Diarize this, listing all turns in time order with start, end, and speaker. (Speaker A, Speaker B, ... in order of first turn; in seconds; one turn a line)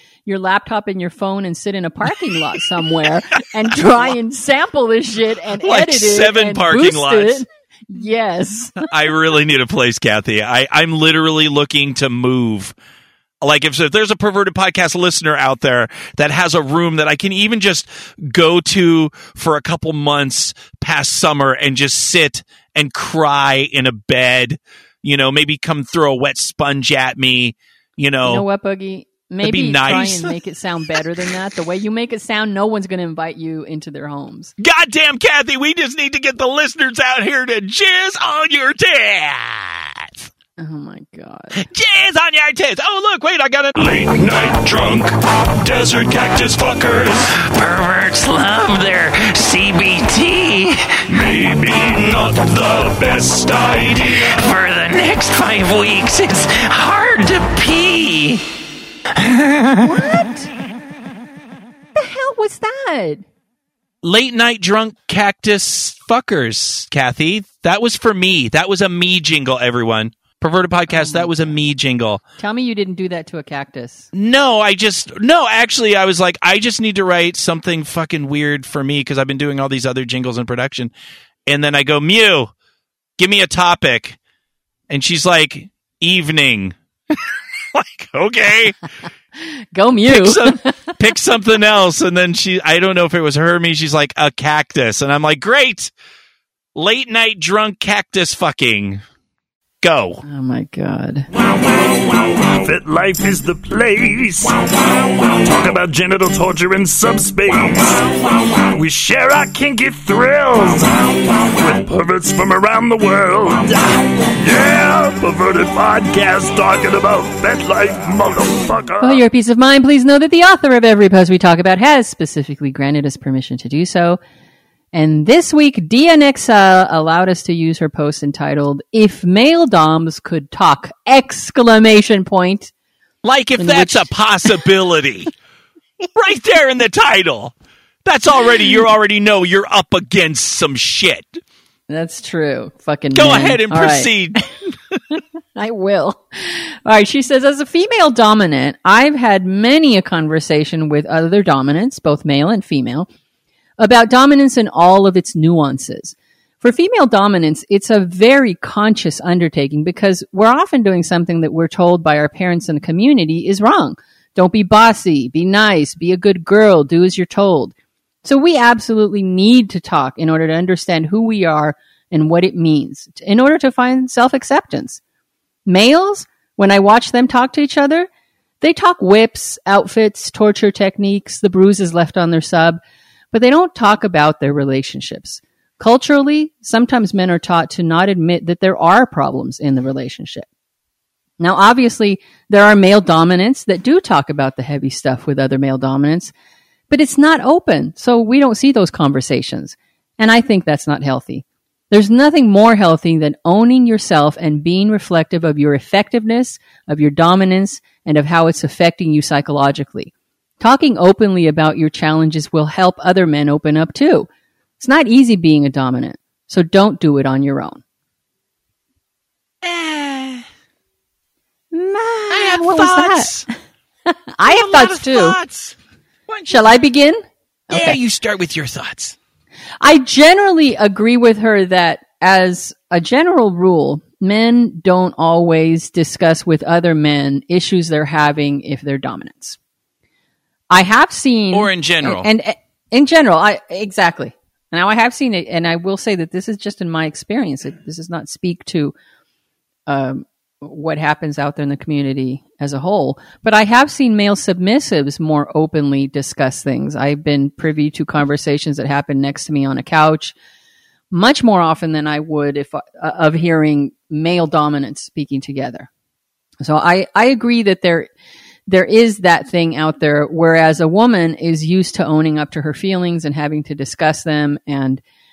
Speaker A: 0.3-8.9
Speaker B: 5.6-7.5
Speaker B: 8.8-12.8
Speaker B: 13.4-28.4
Speaker A: 28.2-34.5
Speaker B: 29.4-30.3
Speaker B: 34.6-40.2
Speaker A: 40.6-41.6
Speaker B: 41.6-43.9
Speaker C: 43.8-47.3
Speaker B: 47.3-51.1
Speaker C: 51.1-54.3
Speaker B: 53.7-58.4
Speaker B: 59.1-59.9
Speaker A: 59.8-60.5
Speaker A: 62.0-63.2
Speaker B: 64.0-72.2
Speaker A: 70.9-71.5
Speaker A: 72.4-74.1
Speaker B: 74.1-80.9
Speaker B: 81.5-82.5
Speaker B: 83.2-84.2
Speaker B: 84.9-88.8
Speaker A: 89.4-90.9
Speaker B: 90.1-95.9
Speaker B: 96.8-99.0
Speaker B: 99.8-100.2
Speaker A: 100.2-101.3
Speaker C: 101.6-119.2
Speaker A: 119.0-124.2
Speaker A: 124.9-132.7
Speaker B: 133.2-135.3
Speaker A: 133.6-134.1
Speaker B: 136.2-137.5
Speaker B: 138.1-141.4
Speaker A: 141.9-144.4
Speaker B: 143.1-144.4
Speaker A: 145.6-153.1
Speaker A: 153.8-167.7
Speaker A: 168.2-175.0
Speaker A: 175.7-178.1
Speaker A: 178.6-182.8
Speaker A: 183.3-190.5
Speaker A: 191.4-196.3
Speaker A: 196.9-214.3
Speaker A: 214.8-217.8
Speaker B: 219.6-220.4
Speaker A: 221.7-223.5
Speaker B: 222.3-223.5
Speaker A: 224.3-225.4
Speaker B: 224.5-225.8
Speaker B: 226.3-226.8
Speaker A: 226.5-228.0
Speaker B: 227.7-229.2
Speaker A: 229.8-239.6
Speaker A: 240.7-248.9
Speaker B: 241.5-242.3
Speaker A: 249.9-260.4
Speaker A: 261.1-265.9
Speaker A: 266.6-268.1
Speaker A: 268.7-275.0